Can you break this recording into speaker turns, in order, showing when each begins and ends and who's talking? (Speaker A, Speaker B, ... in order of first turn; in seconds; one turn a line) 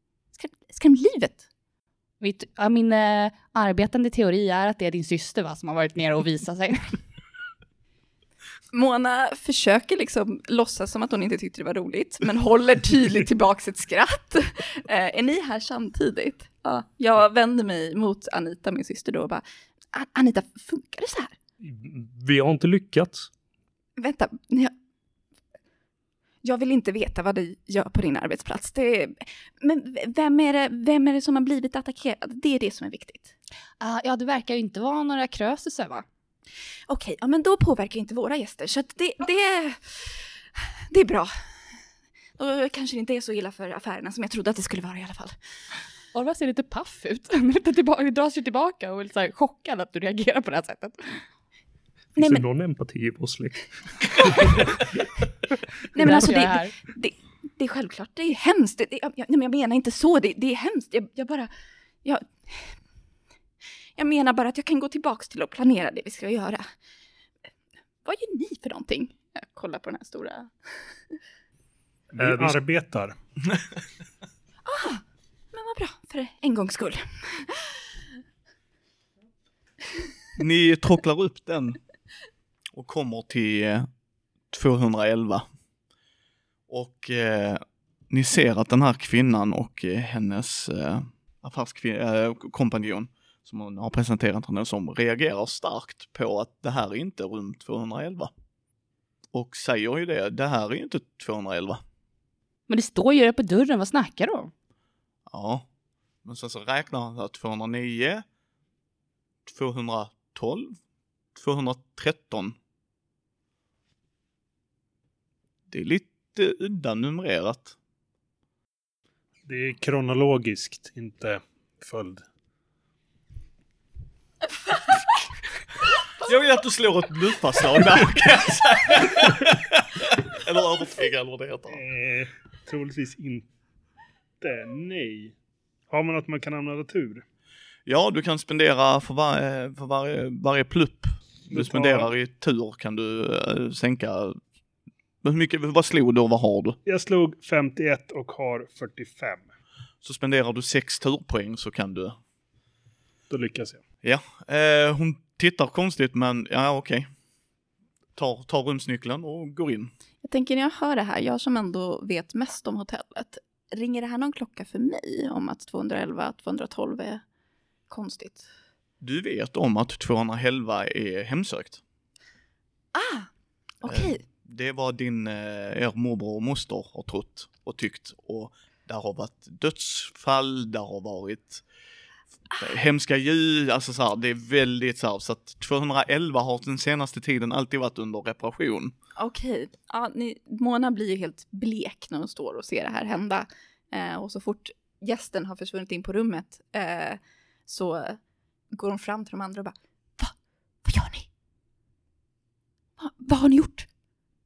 Speaker A: 0.3-1.4
Speaker B: 2.2-7.0
Speaker A: 8.7-21.3
Speaker C: 21.6-23.3
Speaker A: 24.0-24.7
Speaker A: 26.4-33.3
Speaker B: 33.8-36.0
Speaker A: 36.9-41.3
Speaker A: 42.4-45.4
Speaker B: 46.1-51.2
Speaker A: 52.2-52.4
Speaker C: 52.2-54.8
Speaker A: 55.9-61.5
Speaker B: 56.0-56.7
Speaker A: 62.0-62.8
Speaker A: 64.0-66.7
Speaker A: 68.0-71.2
Speaker D: 72.1-73.2
Speaker C: 72.2-72.6
Speaker A: 74.7-77.9
Speaker E: 80.4-81.8
Speaker E: 82.7-83.9
Speaker E: 84.5-85.5
Speaker E: 86.7-98.3
Speaker E: 99.3-101.8
Speaker B: 102.7-104.5
Speaker E: 105.3-105.7
Speaker E: 106.2-108.2
Speaker E: 109.5-110.8
Speaker E: 111.3-112.6
Speaker E: 115.7-117.8
Speaker D: 119.5-122.2
Speaker E: 126.2-131.8
Speaker D: 131.7-133.5
Speaker D: 134.4-135.3
Speaker D: 135.9-137.2
Speaker E: 137.9-144.4
Speaker D: 141.5-142.1
Speaker E: 145.2-146.8
Speaker D: 146.9-149.5
Speaker E: 150.0-152.2
Speaker D: 153.3-153.8
Speaker E: 154.0-157.1
Speaker E: 158.2-159.9
Speaker A: 160.2-167.2
Speaker A: 167.9-168.5
Speaker E: 169.0-171.8
Speaker A: 172.9-173.3
Speaker A: 173.8-174.2
Speaker E: 173.8-181.6
Speaker E: 182.6-188.9
Speaker A: 189.2-198.2
Speaker A: 198.7-201.3
Speaker A: 203.0-203.9